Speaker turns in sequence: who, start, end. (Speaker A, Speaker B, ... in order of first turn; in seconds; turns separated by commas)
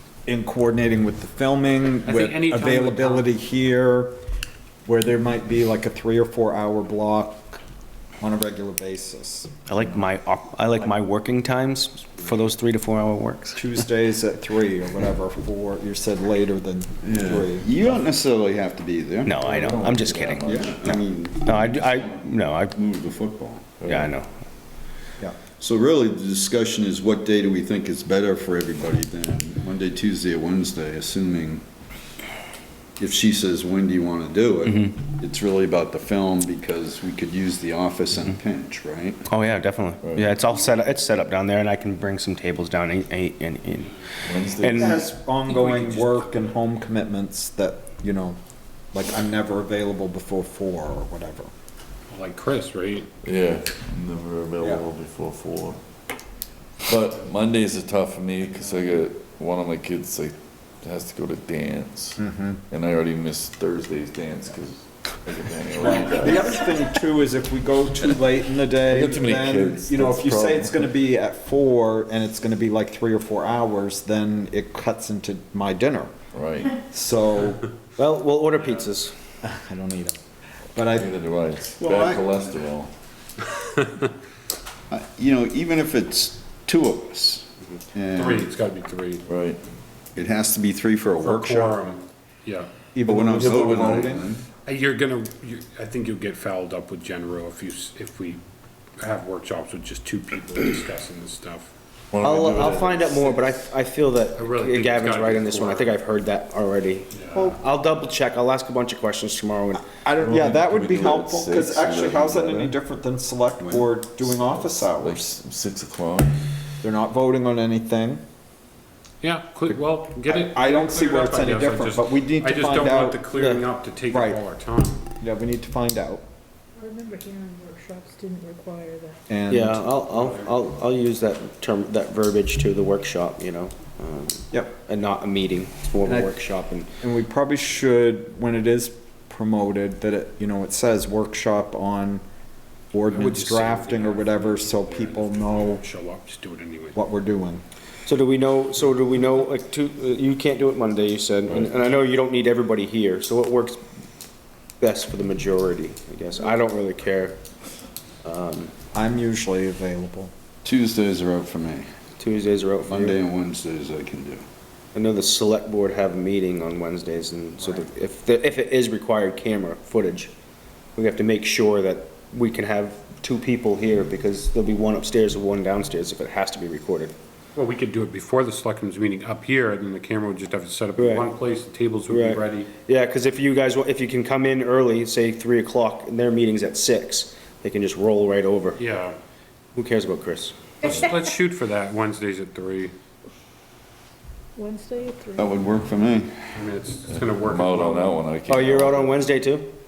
Speaker A: 0.2-4.1, Speaker B: 2.0-3.3, Speaker A: 4.8-7.5, Speaker A: 8.2-9.5, Speaker C: 9.7-13.7, Speaker A: 13.6-17.7, Speaker D: 17.0-17.4, Speaker E: 17.2-19.3, Speaker C: 19.2-22.8, Speaker D: 19.3-20.9, Speaker E: 20.4-23.8, Speaker D: 23.8-24.1, Speaker C: 23.8-24.3, Speaker E: 25.6-31.6, Speaker E: 33.0-39.2, Speaker C: 34.6-35.0, Speaker C: 39.3-43.9, Speaker D: 44.2-44.9, Speaker C: 44.5-45.1, Speaker A: 44.7-48.4, Speaker B: 45.6-46.2, Speaker A: 48.9-51.5, Speaker B: 52.1-53.1, Speaker D: 53.2-55.8, Speaker D: 56.9-66.4, Speaker A: 62.2-62.6, Speaker A: 65.8-76.1, Speaker D: 68.9-70.8, Speaker D: 76.3-76.7, Speaker A: 76.8-77.6, Speaker C: 78.0-79.1, Speaker A: 79.4-80.2, Speaker A: 80.7-81.1, Speaker D: 81.0-82.9, Speaker E: 81.8-82.4, Speaker B: 83.8-84.1, Speaker E: 84.9-88.5, Speaker B: 88.1-89.2, Speaker D: 89.3-89.6, Speaker E: 90.1-91.8, Speaker B: 91.2-92.7, Speaker A: 92.9-94.2, Speaker E: 93.0-94.4, Speaker D: 93.4-93.9, Speaker B: 94.7-98.4, Speaker B: 99.0-101.7, Speaker D: 102.1-103.1, Speaker C: 102.2-109.9, Speaker B: 103.2-103.6, Speaker B: 104.3-106.0, Speaker B: 107.1-107.5, Speaker A: 110.0-115.3, Speaker D: 110.2-112.7, Speaker D: 113.7-114.4, Speaker D: 115.0-116.3, Speaker A: 116.8-118.2, Speaker B: 119.2-125.0, Speaker A: 119.7-123.2, Speaker C: 123.3-123.6, Speaker A: 124.1-124.4, Speaker A: 125.2-126.2, Speaker F: 126.8-129.2, Speaker A: 129.3-129.8, Speaker C: 129.5-136.9, Speaker B: 130.1-130.7, Speaker A: 136.0-136.3, Speaker A: 137.0-142.2, Speaker A: 142.9-145.8, Speaker B: 143.1-147.0, Speaker A: 146.9-147.6, Speaker C: 148.0-153.8, Speaker C: 154.8-157.4, Speaker C: 158.2-158.7, Speaker A: 158.9-160.3, Speaker E: 160.6-161.9, Speaker C: 162.2-163.2, Speaker E: 162.8-164.4, Speaker C: 164.9-170.3, Speaker C: 170.9-177.1, Speaker B: 177.6-182.7, Speaker C: 181.0-181.3, Speaker C: 182.1-188.8, Speaker B: 188.8-189.2, Speaker C: 189.7-190.6, Speaker B: 190.8-192.9, Speaker F: 194.6-195.5, Speaker E: 195.3-196.6, Speaker B: 196.5-198.2, Speaker D: 197.1-199.3, Speaker C: 198.5-199.7